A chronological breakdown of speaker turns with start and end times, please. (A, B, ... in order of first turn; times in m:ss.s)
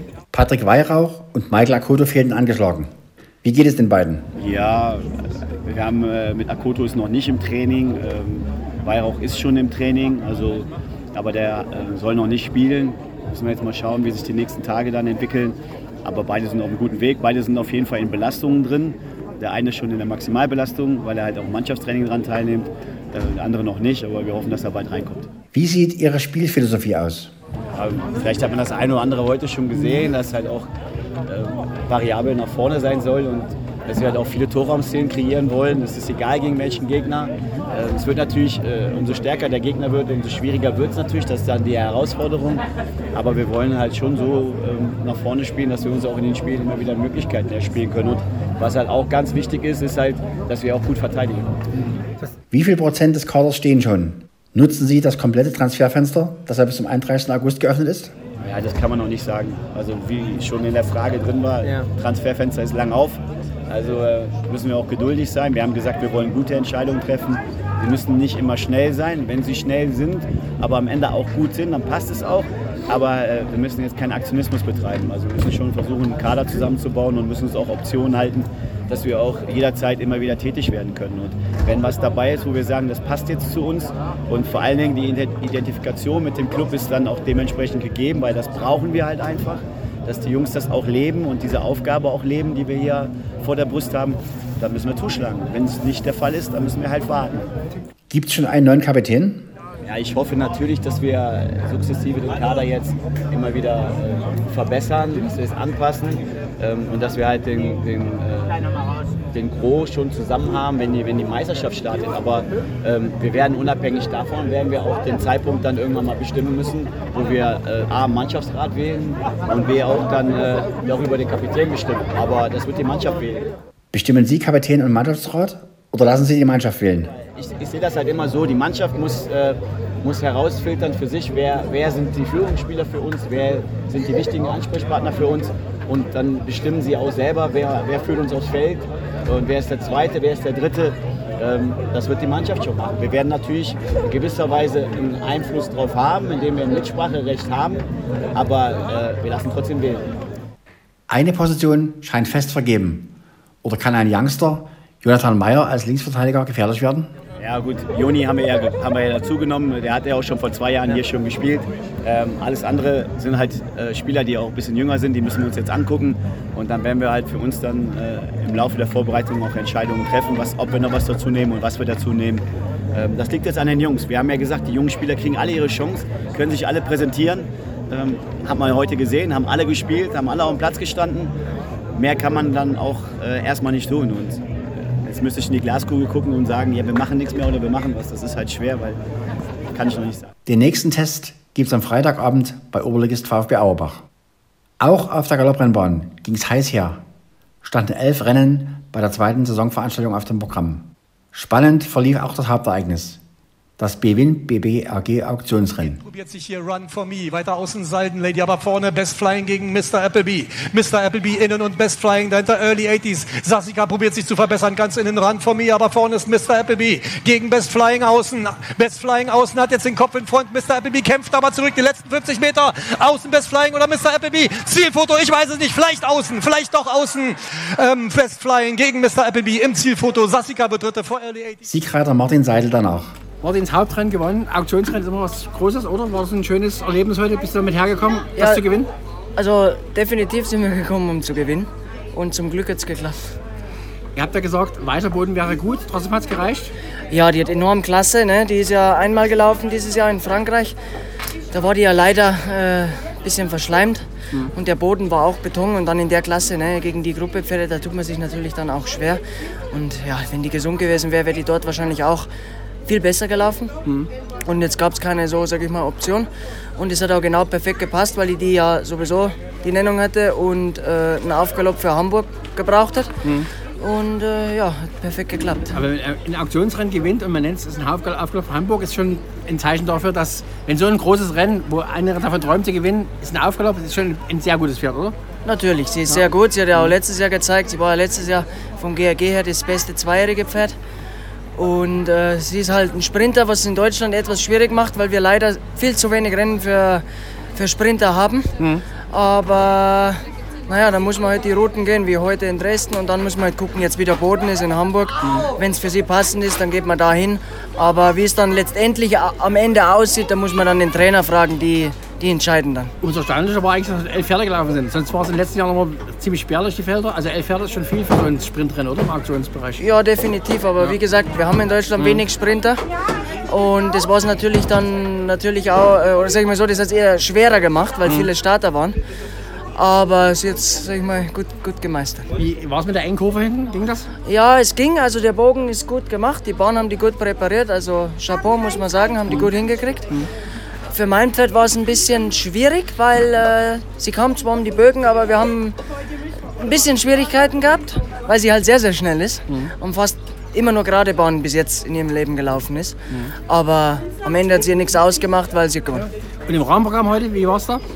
0:00.3-0:02.9 A
0:03.4-0:04.3 A
0:04.4-0:25.3 B
0:25.5-0:27.3 A
0:27.7-0:30.7 B
0:31.3-0:42.6 B
0:43.1-0:51.6 B
0:52.5-0:58.1 A
0:58.4-1:37.5 B
1:38.1-1:39.5 A
1:39.8-1:48.7 B
1:49.3-2:03.5 B
2:03.9-2:07.1 A
2:07.2-2:30.1 B
2:31.1-2:33.1 A
2:33.6-2:37.1 A
2:37.4-3:01.3 B
3:02.0-3:04.4 B
3:05.0-3:09.0 B
3:09.7-3:10.3 B
3:10.5-3:14.0 A
3:14.8-3:17.0 A
3:17.6-3:23.2 A
3:23.8-3:26.0 A
3:26.0-3:51.6 C
3:51.7-3:53.1 A
3:53.4-3:58.9 D
3:58.4-3:58.6 E
3:59.4-4:03.4 E
4:04.2-4:06.7 D
4:07.1-4:10.8 E
4:11.5-4:22.3 E
4:22.9-4:23.7 E
4:24.4-4:33.1 E
4:33.8-4:35.8 E
4:35.7-4:45.2 D
4:45.4-4:50.8 E
4:51.6-5:12.9 E
5:13.0-5:19.8 D
5:19.8-5:22.8 E
5:23.5-5:29.0 E
5:29.8-5:32.3 E
5:32.4-5:34.1 D
5:34.3-5:40.1 E
5:40.9-5:45.8 E
5:46.6-5:53.0 E
5:53.5-5:56.1 E
5:56.5-5:57.8 D